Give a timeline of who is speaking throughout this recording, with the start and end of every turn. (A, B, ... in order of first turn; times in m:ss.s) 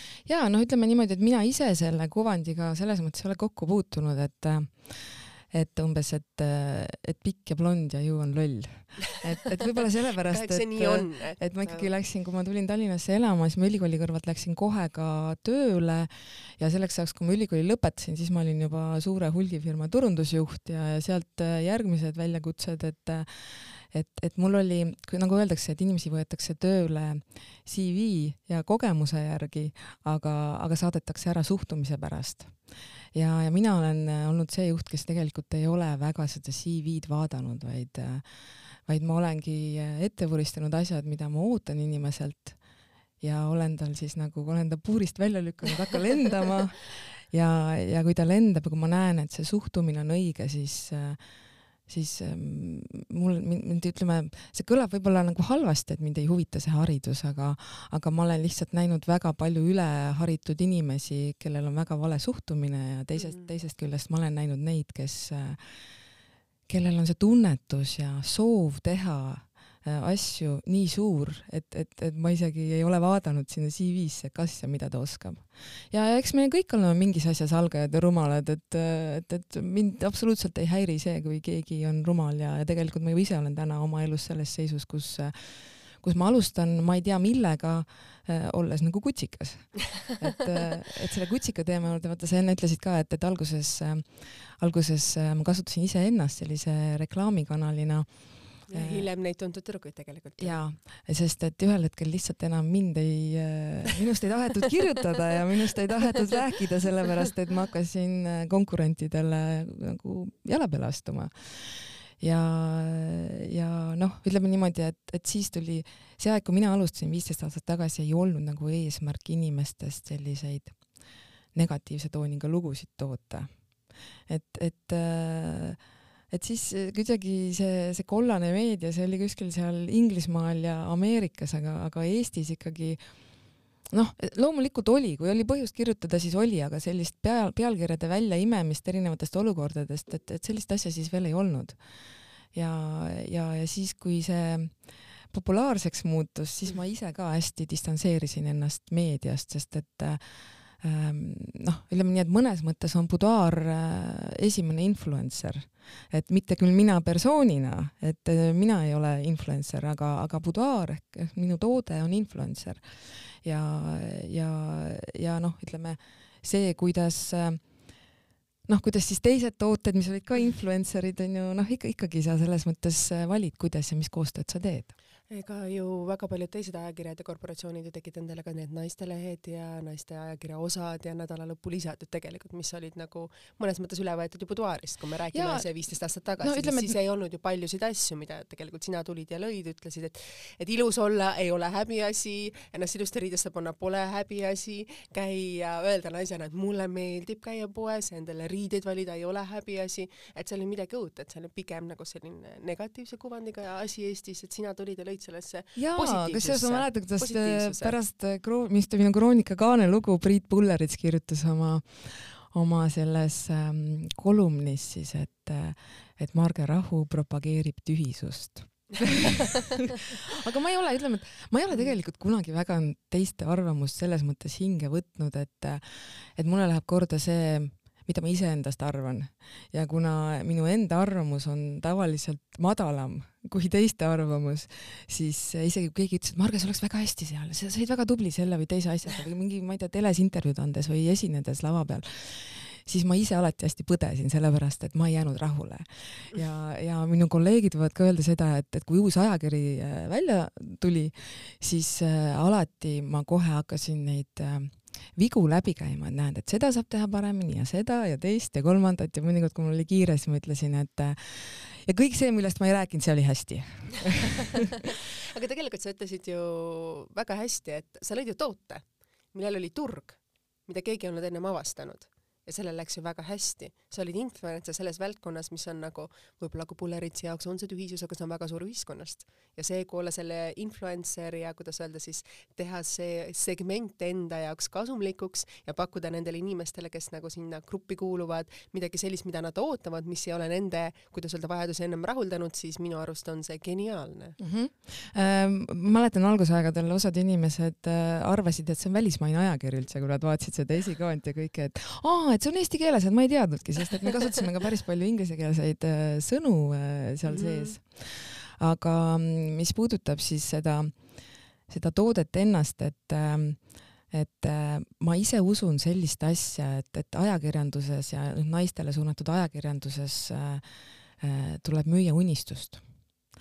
0:00.3-0:32.6 A
0:10.2-0:11.9 B
0:33.1-0:38.2 A
0:38.8-0:42.6 A
0:43.2-0:51.2 A
0:51.9-1:05.8 A
1:03.2-1:03.5 B
1:06.7-1:39.1 A
1:38.7-1:40.6 B
1:40.4-2:00.8 A
2:01.5-2:03.5 A
2:04.3-2:05.8 A
2:06.3-2:13.0 A
2:13.9-2:21.8 A
2:22.5-2:47.6 A
2:48.7-2:54.9 A
2:55.3-3:28.0 B
3:05.3-3:05.7 A
3:06.4-3:07.0 A
3:25.8-4:24.7 A
4:25.0-4:54.4 B
4:54.4-5:11.1 A
5:07.3-5:07.8 B
5:11.7-5:20.7 A
5:21.2-5:22.8 A